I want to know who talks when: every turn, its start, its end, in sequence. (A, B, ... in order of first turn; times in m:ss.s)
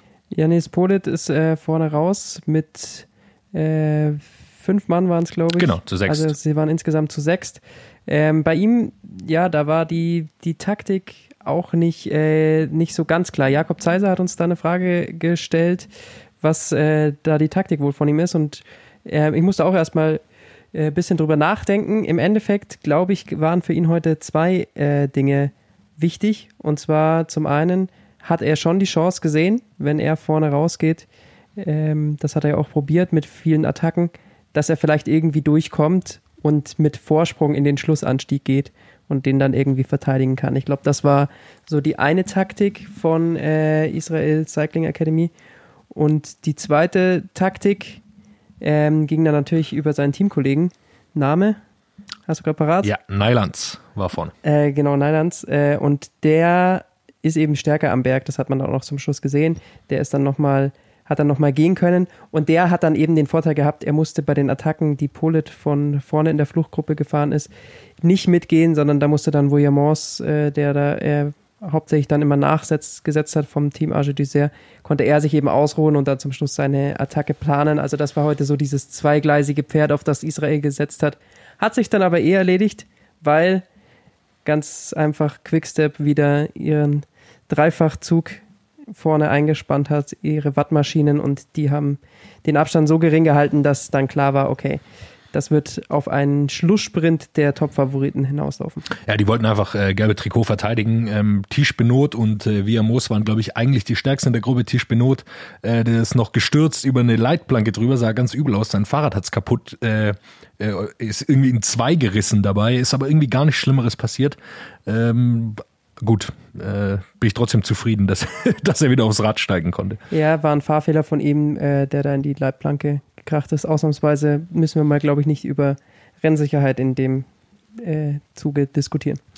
0:00.3-0:15.9 A
0:05.6-0:06.4 B
0:16.4-0:20.2 A
0:20.7-0:45.3 A
0:45.9-0:48.0 A
0:48.6-0:51.6 A
0:52.3-0:52.9 A
0:52.8-0:54.3 B
0:54.4-1:07.5 A
1:08.0-1:23.6 A
1:24.4-1:28.4 A
1:28.9-1:34.8 A
1:35.3-1:38.9 A
1:39.0-2:00.0 B
2:00.1-2:07.3 A
2:07.8-2:09.2 A